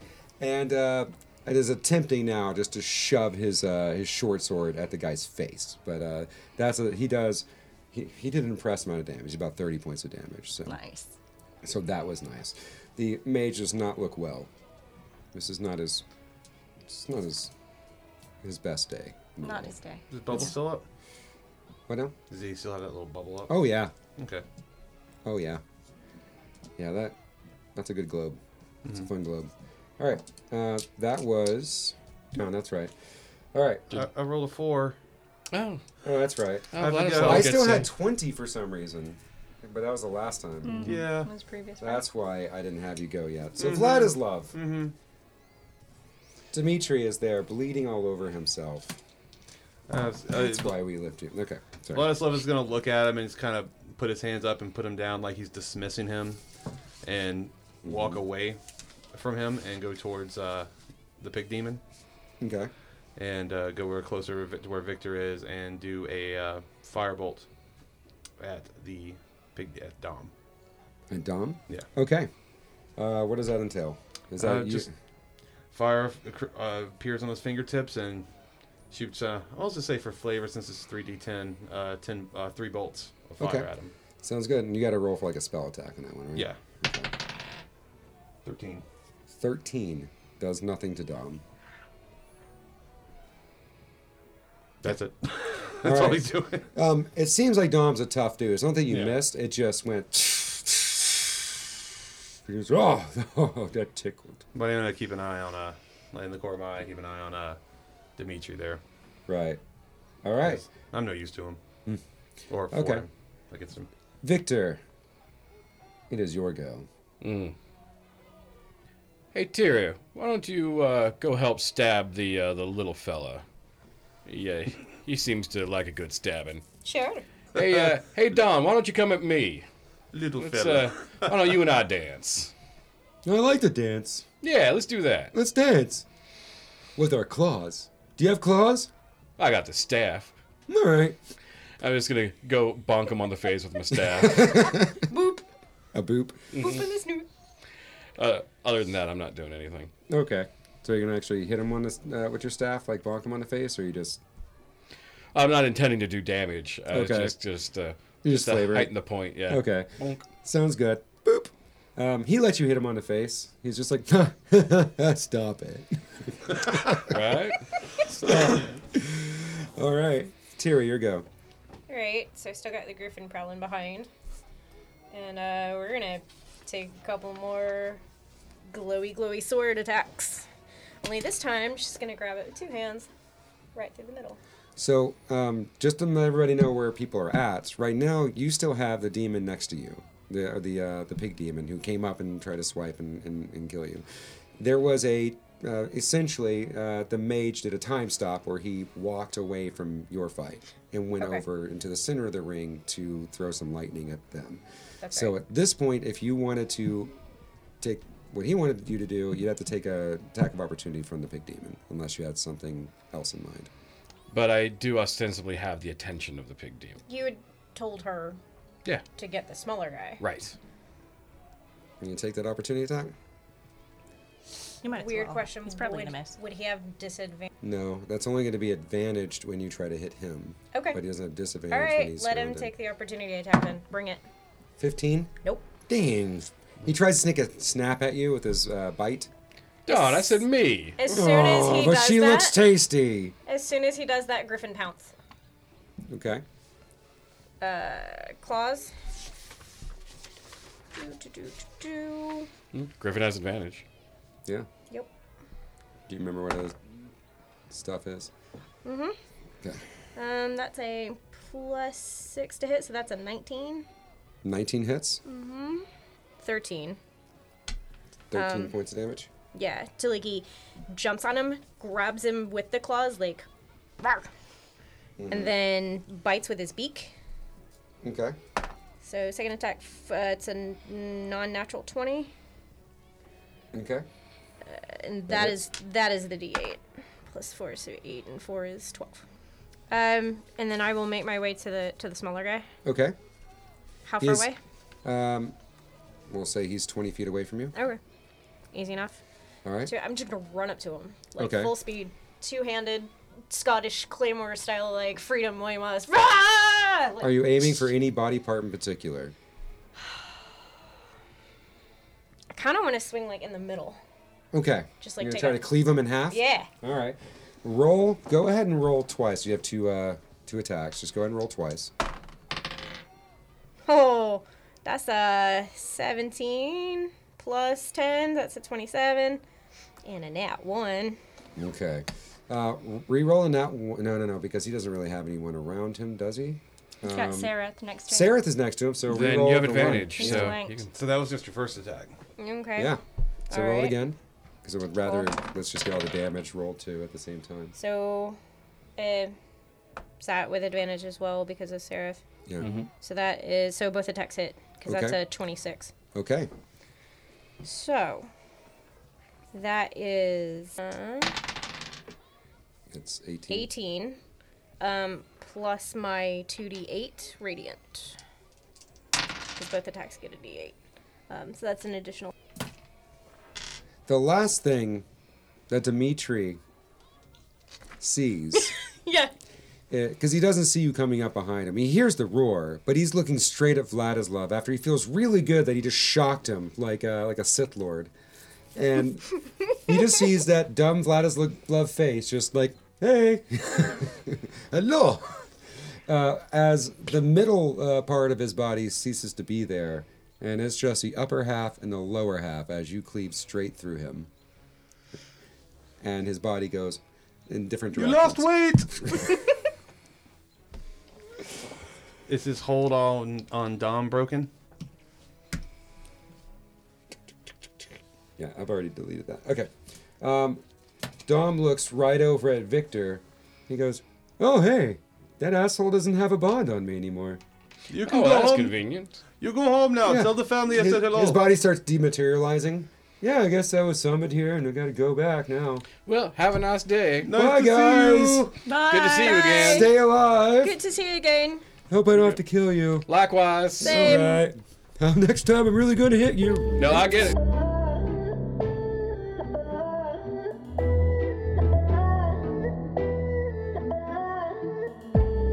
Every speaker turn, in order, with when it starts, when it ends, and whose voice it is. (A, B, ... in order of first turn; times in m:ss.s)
0:00.4-0:10.8 A
0:10.7-0:11.1 B
0:11.6-0:14.5 A
0:15.3-0:16.0 A
0:16.9-0:17.5 A
0:18.4-0:19.8 A
0:19.4-0:20.4 B
0:20.1-0:20.9 C
0:21.9-0:22.2 A
0:22.3-0:23.6 C
0:23.5-0:23.9 A
0:24.2-0:24.4 C
0:25.2-0:25.6 A
0:26.8-0:27.2 A
0:27.8-0:33.0 A
0:33.5-0:34.0 A
0:33.9-0:35.0 C
0:35.5-0:35.8 D
0:36.0-0:40.9 A
0:36.7-0:37.9 D
0:36.8-0:37.9 C
0:40.6-0:42.0 B
0:40.8-0:41.3 C
0:41.8-0:44.6 A
0:43.6-0:44.9 C
0:46.5-0:49.0 A
0:49.9-0:50.7 C
0:50.3-0:52.1 A
0:51.9-0:56.4 C
0:57.0-0:58.6 C
0:57.8-0:58.2 A
0:59.1-1:01.8 C
1:02.4-1:02.7 A
1:03.2-1:07.5 C
1:08.4-1:10.3 C
1:11.1-1:12.3 A
1:13.0-1:14.9 A
1:14.4-1:14.9 C
1:15.7-1:18.3 C
1:18.9-1:23.9 C
1:23.4-1:23.7 A
1:24.2-1:27.1 A
1:28.4-1:28.8 C
1:29.4-1:31.4 A
1:34.8-1:36.7 C
1:35.8-1:41.5 A
1:38.9-1:39.2 C
1:42.4-1:44.4 A
1:44.5-1:47.6 C
1:48.2-1:48.8 C
1:49.3-1:49.6 A
1:50.2-1:50.6 A
1:50.4-1:51.6 C
1:52.5-1:53.9 C
1:52.7-1:53.1 A
1:54.2-1:54.8 A
1:56.1-1:56.9 A
1:57.2-1:57.6 D
1:59.3-2:03.4 D
2:04.3-2:06.6 D
2:06.8-2:07.2 E
2:07.6-2:09.7 D
2:10.1-2:11.5 C
2:10.4-2:12.5 D
2:13.2-2:14.3 A
2:14.4-2:15.3 D
2:15.3-2:16.1 A
2:17.0-2:18.9 A
2:19.4-2:20.3 D
2:20.7-2:21.2 A
2:21.8-2:24.6 D
2:24.2-2:25.0 A
2:25.1-2:25.4 E
2:25.9-2:26.6 A
2:26.6-2:27.3 E
2:28.2-2:29.9 D
2:30.1-2:34.2 A
2:35.3-2:40.2 D
2:36.9-2:37.3 A
2:38.2-2:38.9 A
2:39.5-2:47.2 A
2:47.1-2:48.5 D
2:48.2-2:51.3 A
2:51.9-2:54.1 E
2:55.1-2:58.0 E
2:58.7-3:00.5 E
3:01.0-3:03.1 E
3:03.8-3:04.4 E
3:04.8-3:27.2 A
3:25.0-3:25.3 E
3:27.8-3:33.7 A
3:34.3-3:37.0 D
3:37.1-3:38.4 E
3:39.2-3:40.2 E
3:40.2-3:40.6 D
3:42.0-3:43.1 A
3:44.8-3:46.3 B
3:45.0-3:47.5 E
3:47.6-3:52.7 A
3:50.7-3:51.0 E
3:51.7-3:54.2 E
3:54.8-3:55.4 A
3:55.9-3:59.3 A
3:59.9-4:01.0 D
3:59.9-4:00.4 E
4:01.0-4:02.6 E
4:01.1-4:03.4 A
4:03.5-4:05.1 E
4:06.1-4:06.4 A
4:07.6-4:08.9 E
4:11.0-4:12.5 E
4:12.8-4:13.8 D
4:16.1-4:16.9 A
4:17.7-4:18.3 A
4:18.8-4:19.2 E
4:19.6-4:19.9 A
4:20.2-4:23.9 E
4:24.4-4:25.2 A
4:25.2-4:25.9 E
4:26.4-4:27.0 E
4:28.3-4:29.3 A
4:28.3-4:28.8 E
4:29.5-4:33.5 E
4:34.0-4:34.3 E
4:35.2-4:35.5 A
4:35.3-4:37.2 E
4:38.0-4:38.4 A
4:39.0-4:42.3 E
4:43.7-4:44.1 A
4:44.6-4:49.2 E
4:45.3-4:45.6 A
4:49.9-4:52.7 E
4:52.8-4:53.2 A
4:54.1-4:54.6 E
4:54.2-4:54.5 A
4:55.0-4:55.6 A
4:56.3-4:57.8 A
4:57.8-4:58.0 E
4:58.7-4:59.2 E
4:59.6-4:59.9 A
4:59.9-5:07.7 E
5:01.4-5:01.7 A
5:07.2-5:09.4 A
5:12.5-5:14.0 E
5:14.5-5:21.9 A
5:15.0-5:15.6 E
5:16.3-5:16.7 E
5:23.9-5:29.4 E
5:30.0-5:31.2 E
5:31.6-5:37.5 A
5:37.0-5:38.4 B
5:38.1-5:40.5 A
5:39.1-5:40.9 D
5:40.2-5:40.8 B
5:40.9-5:42.2 C
5:42.4-5:43.0 E
5:42.8-5:47.8 A
5:43.5-5:43.9 E
5:47.8-5:48.4 E
5:49.0-5:49.4 E
5:50.2-5:52.2 E
5:52.6-5:52.9 B
5:52.6-5:52.9 D
5:53.0-5:55.9 E
5:54.8-5:55.2 A
5:56.1-5:56.5 A
5:57.6-5:58.3 E
5:59.5-6:01.4 E
6:02.9-6:03.7 A
6:03.5-6:04.2 E
6:04.8-6:08.2 E
6:09.6-6:10.8 E
6:11.3-6:12.3 E
6:14.1-6:15.1 A
6:15.7-6:16.6 A
6:18.0-6:18.7 A
6:18.6-6:19.3 E
6:19.9-6:28.1 A
6:28.8-6:35.5 A
6:36.1-6:44.3 A
6:46.0-6:49.4 A
6:48.0-6:49.4 C
6:52.3-6:54.5 C
6:58.4-7:00.6 A
7:01.3-7:07.4 A
7:07.9-7:08.8 C
7:08.1-7:09.2 D
7:09.4-7:11.4 C
7:10.0-7:15.9 A
7:16.1-7:17.3 D
7:17.2-7:18.4 C
7:17.3-7:18.6 A
7:18.7-7:19.6 B
7:18.9-7:19.9 D
7:19.1-7:19.9 E
7:19.6-7:20.7 A
7:20.6-7:21.7 E
7:21.9-7:23.1 A
7:23.1-7:24.2 D
7:23.8-7:27.0 A
7:23.8-7:24.5 E
7:26.8-7:27.4 D